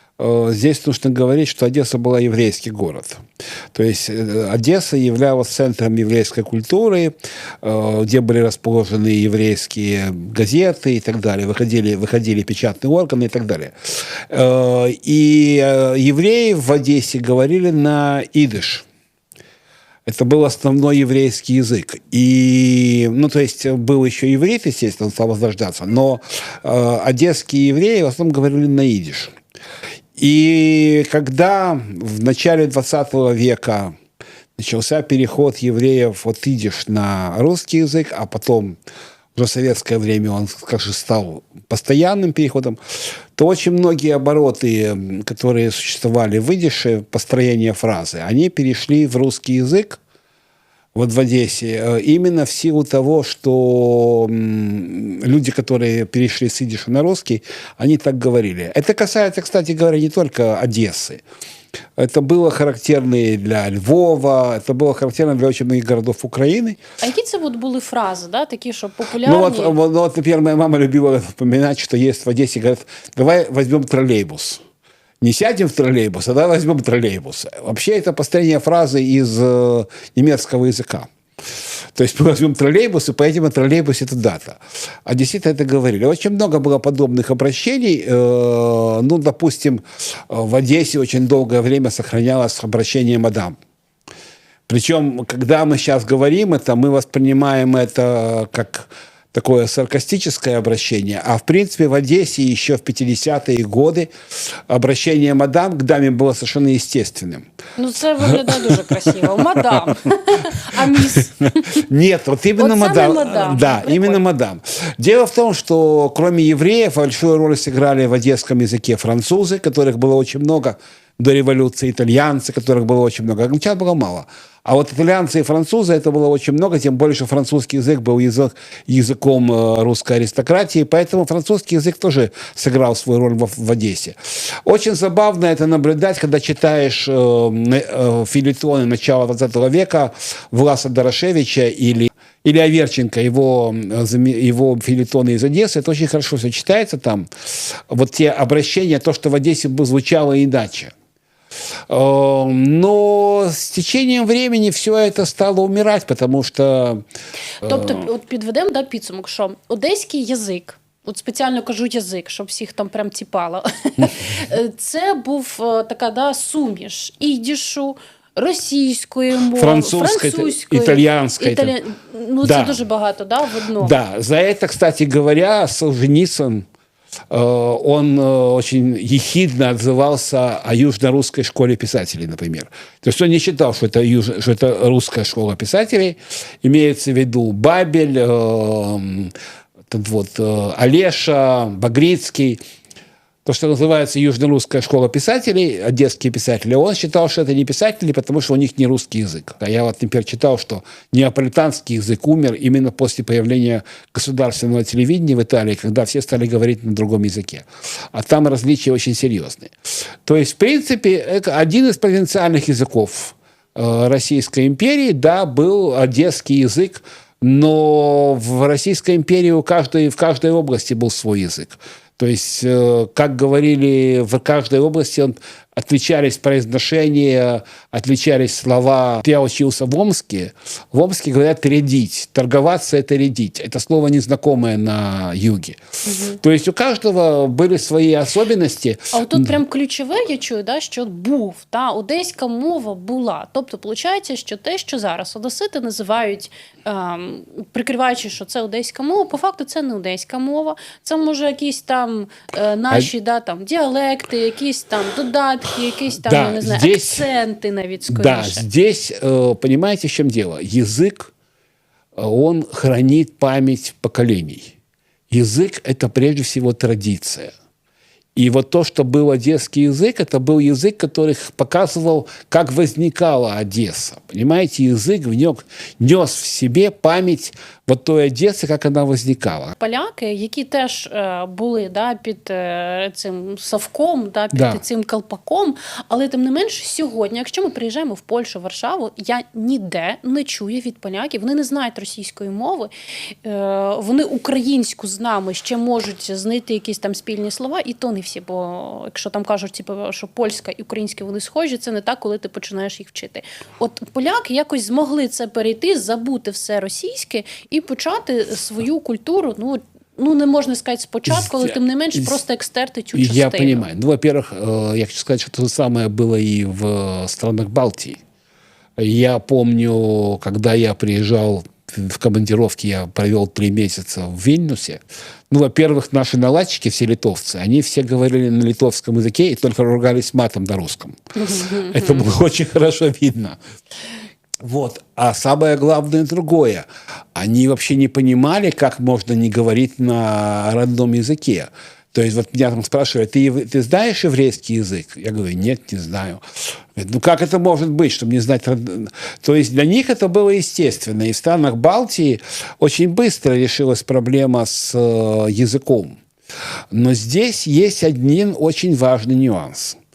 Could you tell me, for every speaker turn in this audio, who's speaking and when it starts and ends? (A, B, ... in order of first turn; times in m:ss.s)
0:00.2-0:03.2 A
0:03.7-0:18.8 A
0:20.0-0:29.3 A
0:30.2-0:33.9 A
0:34.6-0:38.8 A
0:39.4-0:42.8 A
0:43.3-0:50.0 A
0:50.9-1:01.2 A
1:02.0-1:06.8 A
1:07.0-1:09.8 B
1:09.2-1:14.6 A
1:15.2-1:21.1 A
1:21.9-1:33.5 A
1:34.7-1:47.5 A
1:47.8-1:51.8 B
1:48.3-1:50.0 A
1:50.7-2:30.9 A
1:52.6-1:54.2 B
2:31.9-2:37.0 A
2:37.6-2:54.0 B
2:37.6-2:38.0 A
2:49.5-2:51.8 A
2:52.4-2:52.8 A
2:53.8-2:56.6 A
2:57.3-3:09.3 A
3:09.9-3:12.6 A
3:13.4-3:29.7 A
3:30.2-3:55.8 A
3:56.0-3:56.4 B
3:56.4-3:59.6 A
3:59.1-4:18.6 B
4:16.2-4:17.2 A
4:18.1-4:21.3 A
4:22.2-4:24.7 A
4:25.3-4:27.5 A
4:28.4-4:39.7 A
4:39.8-5:13.9 B
4:44.5-4:44.8 A
5:11.3-5:12.3 A
5:13.1-5:18.2 A
5:19.0-5:33.6 A
5:31.4-5:32.2 B
5:34.6-5:46.4 A
5:46.9-5:56.2 A
5:56.9-6:00.0 A